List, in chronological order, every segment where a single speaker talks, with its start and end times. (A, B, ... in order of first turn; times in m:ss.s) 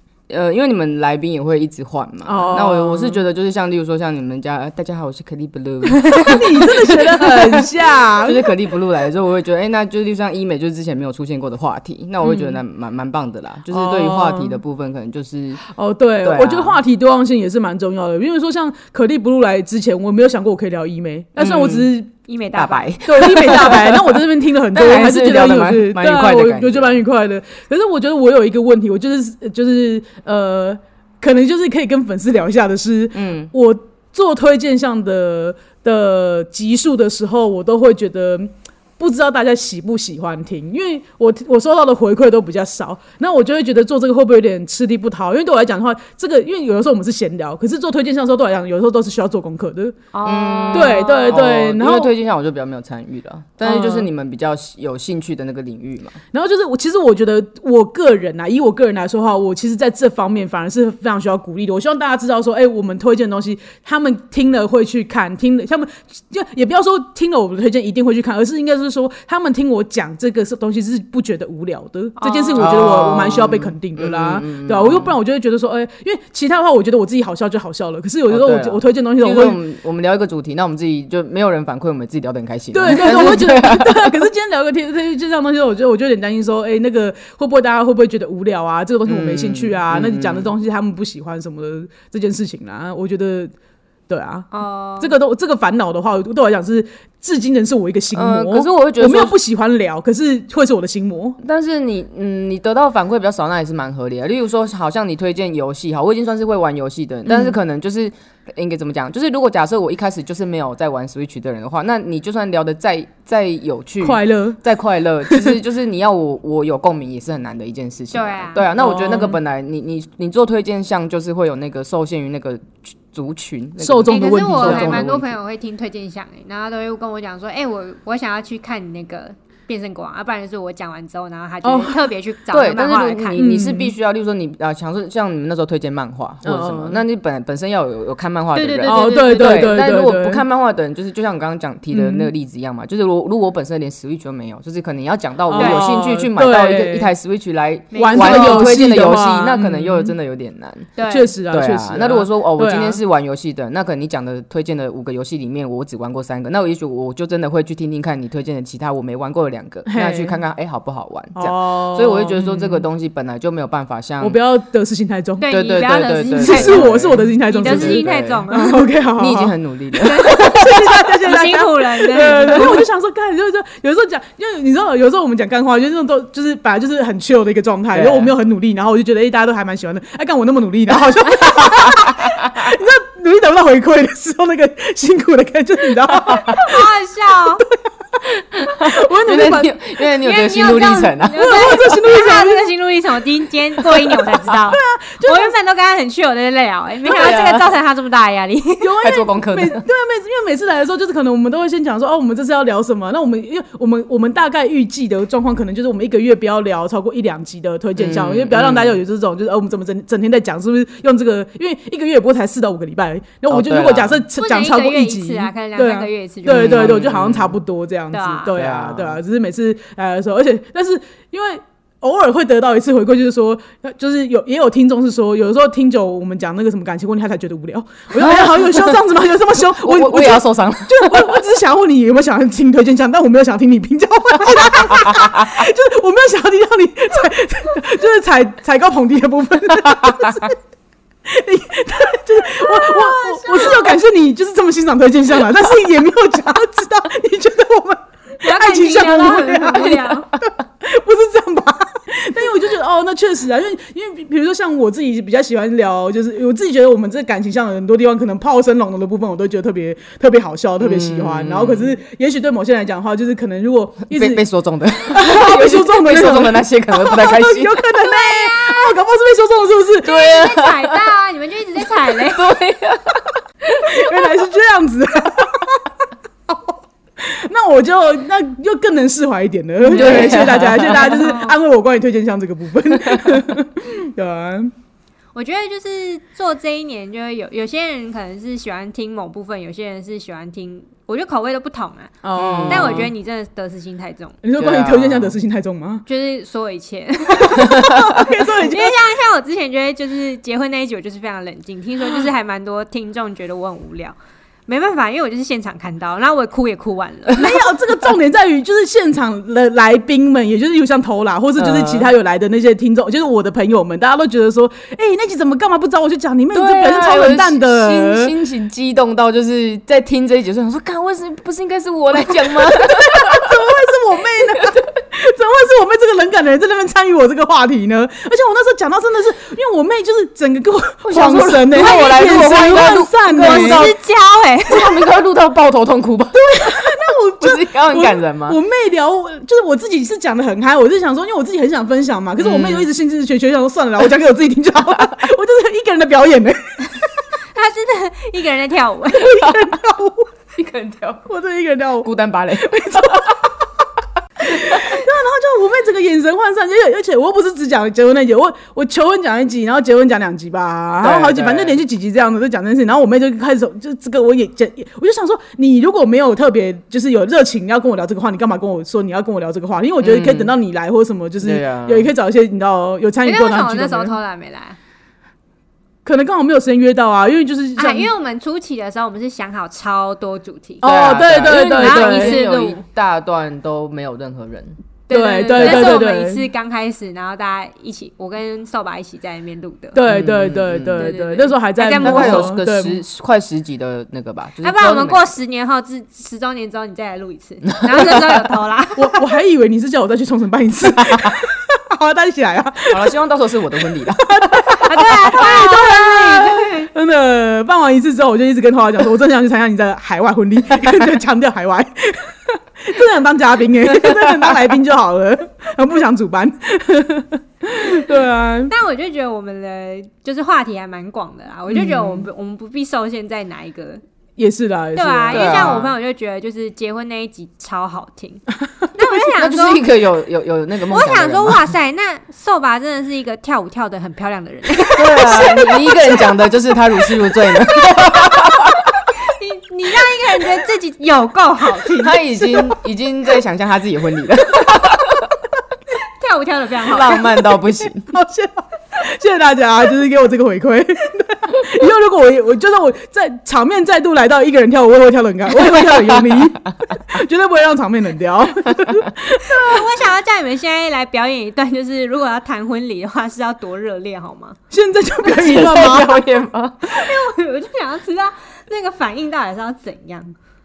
0:00.3-0:15.6 A
0:02.2-0:03.2 B
0:06.2-0:08.5 B
0:12.2-0:12.6 B
0:13.7-0:14.6 B
0:15.6-0:22.1 B
0:16.2-0:16.8 A
0:21.4-0:21.9 A
0:22.3-0:22.9 C
0:22.5-0:24.2 A
0:23.0-0:50.0 B
0:24.7-0:27.0 A
0:33.1-0:33.5 A
0:50.1-0:51.4 C
0:50.2-0:56.2 A
0:50.7-0:52.1 B
0:53.6-0:54.1 B
0:56.3-1:19.6 B
1:12.2-1:12.7 C
1:12.6-1:15.1 A
1:18.3-1:24.1 A
1:22.7-1:33.5 B
1:29.1-1:30.5 A
1:34.1-1:34.5 B
1:34.5-1:35.1 C
1:35.0-1:41.4 B
1:38.1-1:39.4 A
1:41.4-2:05.3 A
1:47.3-1:47.5 B
1:54.0-1:54.6 B
1:55.3-1:55.6 B
1:58.1-1:58.7 C
1:58.7-1:59.4 B
2:03.8-2:05.1 B
2:04.1-2:13.4 C
2:11.6-2:12.0 B
2:12.5-2:30.9 A
2:13.4-2:13.9 B
2:16.4-2:17.0 B
2:18.5-2:19.8 C
2:18.9-2:20.4 B
2:21.9-2:22.3 B
2:25.5-2:27.1 B
2:25.6-2:25.9 C
2:27.9-2:28.8 C
2:28.0-2:30.1 B
2:31.0-2:31.3 C
2:31.0-2:33.0 B
2:31.5-2:44.4 A
2:39.9-2:40.4 B
2:41.3-2:42.8 B
2:44.2-2:45.5 B
2:45.4-2:48.9 C
2:45.5-2:48.5 A
2:46.3-3:06.8 B
2:49.1-2:50.9 A
2:50.0-2:52.8 C
2:52.5-2:52.8 A
2:57.9-2:58.3 A
3:01.4-3:02.4 A
3:06.3-3:07.6 C
3:08.5-3:11.7 A
3:08.7-3:09.7 B
3:10.1-3:18.9 C
3:11.3-3:12.6 B
3:13.9-3:15.5 B
3:17.0-3:17.7 A
3:18.8-4:00.6 B
3:19.0-3:19.8 A
3:28.0-3:29.0 A
3:33.5-3:34.2 A
3:34.4-3:37.0 C
3:36.4-3:37.6 A
3:38.1-3:38.5 C
3:38.5-3:39.2 A
3:48.2-3:51.4 A
3:54.5-3:55.6 A
4:00.0-4:00.4 A
4:01.3-4:24.4 B
4:02.5-4:04.0 C
4:08.4-4:10.3 C
4:20.8-4:22.0 A
4:24.1-4:27.8 A
4:24.9-4:30.2 B
4:28.0-4:29.0 C
4:30.0-4:31.1 A
4:30.0-4:32.5 C
4:31.8-4:34.0 A
4:33.8-4:35.8 B
4:36.5-4:44.7 B
4:39.9-4:41.4 A
4:40.0-4:41.6 C
4:43.0-4:43.4 A
4:45.3-4:54.4 C
4:52.2-4:53.1 B
4:52.4-4:53.1 A
4:54.4-4:56.0 B
4:54.6-4:55.4 A
4:56.1-5:04.2 C
4:57.4-4:59.0 B
5:04.7-5:07.6 C
5:07.3-5:18.3 B
5:11.6-5:12.1 A
5:16.5-5:23.6 A
5:22.4-5:33.9 B
5:31.0-5:34.0 A
5:32.2-5:35.0 C
5:34.6-5:38.6 A
5:36.3-5:47.0 B
5:42.4-5:42.9 A
5:47.5-5:49.4 C
5:49.1-5:50.3 B
5:50.6-5:51.3 A
5:51.3-5:53.4 B
5:52.0-5:53.4 A
5:54.4-6:14.1 B
5:54.4-5:55.0 A
6:01.0-6:01.8 A
6:10.0-6:10.5 A
6:11.4-6:12.1 A
6:13.2-6:14.8 C
6:16.0-6:18.1 B
6:17.8-6:20.8 C
6:20.8-6:22.4 B
6:20.8-6:24.8 A
6:21.5-6:22.8 C
6:25.1-6:30.1 C
6:25.1-6:26.4 B
6:25.6-6:25.9 A
6:29.9-6:33.0 B
6:30.1-6:31.0 A
6:30.9-6:32.6 C
6:32.0-6:35.2 A
6:34.6-6:39.2 C
6:37.9-6:38.2 A
6:39.0-6:43.1 B
6:40.9-6:41.3 A
6:42.9-6:44.9 A
6:44.3-6:58.7 B
6:44.8-6:46.9 C
6:53.8-6:54.6 A
6:58.7-7:04.0 C
7:01.7-7:02.2 B
7:04.4-7:05.8 B
7:05.0-7:09.8 C
7:05.3-7:05.9 A
7:09.4-7:11.6 A
7:10.9-7:16.3 C
7:14.9-7:18.9 A
7:17.9-7:18.4 C
7:19.2-7:22.2 C
7:21.9-7:25.3 A
7:26.2-7:27.3 C
7:26.8-7:28.1 A
7:27.8-7:39.9 B
7:35.6-7:36.4 A
7:39.5-7:44.6 C
7:44.7-7:46.2 B
7:45.2-7:47.2 A
7:46.8-7:50.3 C